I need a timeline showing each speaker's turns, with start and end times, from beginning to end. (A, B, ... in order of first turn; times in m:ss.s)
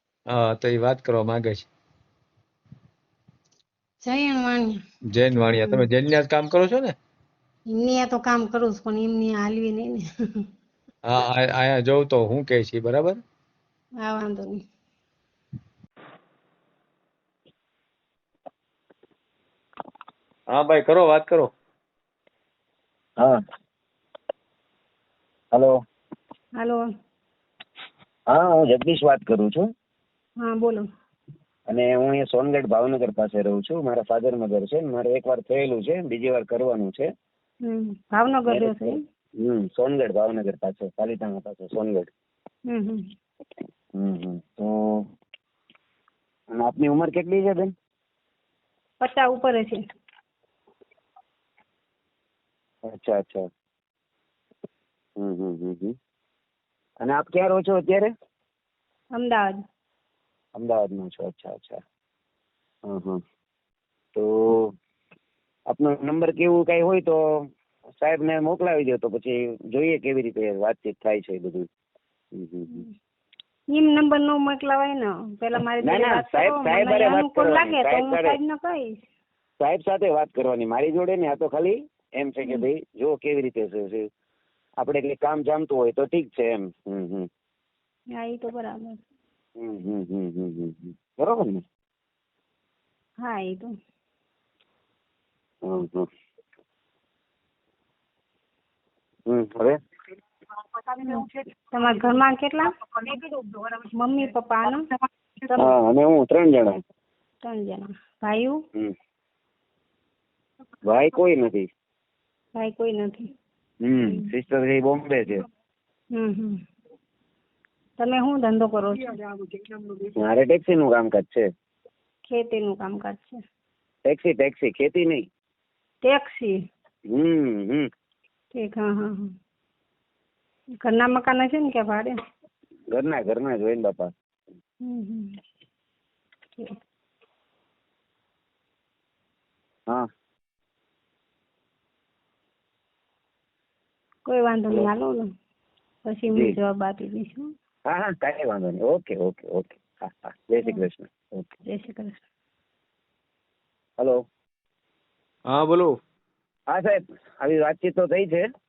0:00.3-0:01.7 A
0:04.0-0:04.8 B
0:05.1-0:06.9 A
0:05.6-0:05.8 B
0:07.7-0:10.0 B
0:11.0-0:13.2 A
0:14.0-0:14.6 B
0:20.5-0:21.5 A
0:25.5-0:25.8 C
0:26.6-0:26.8 B
0:28.3-0:29.7 C
0:30.4-0:30.8 B
0:31.7-0:37.1 C
0:37.6-0:39.0 B
0:38.5-0:42.1 C
0:42.7-0:43.0 B
0:44.0-0:45.0 C
0:46.5-0:47.7 C
0:49.0-0:49.8 B
0:52.9-0:53.5 C
0:55.2-0:55.9 C
0:57.0-0:58.1 C
0:59.1-0:59.6 B
1:00.5-1:01.8 C
1:02.8-1:03.2 C
1:04.1-1:04.7 C
1:05.7-1:07.5 C
1:08.0-1:11.7 C
1:12.3-1:12.8 C
1:13.7-1:19.0 B
1:15.8-1:18.4 C
1:19.6-1:24.1 C
1:24.8-1:27.3 C
1:28.1-1:29.0 B
1:29.6-1:31.6 C
1:33.2-1:33.7 B
1:35.6-1:36.1 C
1:39.3-1:39.8 C
1:41.0-1:42.7 B
1:43.8-1:44.8 B
1:45.4-1:45.7 B
1:45.6-1:46.8 C
1:47.4-1:48.6 B
1:50.8-1:51.6 C
1:52.6-1:53.2 B
1:53.8-1:55.4 C
1:56.1-1:56.6 B
1:58.0-1:59.2 B
2:00.2-2:01.5 C
2:02.2-2:03.4 B
2:04.0-2:05.2 C
2:06.0-2:06.6 B
2:07.1-2:07.9 C
2:08.5-2:09.3 B
2:10.8-2:12.1 B
2:12.9-2:14.1 C
2:14.8-2:15.3 B
2:24.2-2:25.3 B
2:26.0-2:27.5 B
2:26.3-2:26.6 C
2:27.9-2:31.5 C
2:31.6-2:32.2 B
2:35.5-2:35.9 A
2:36.7-2:38.4 C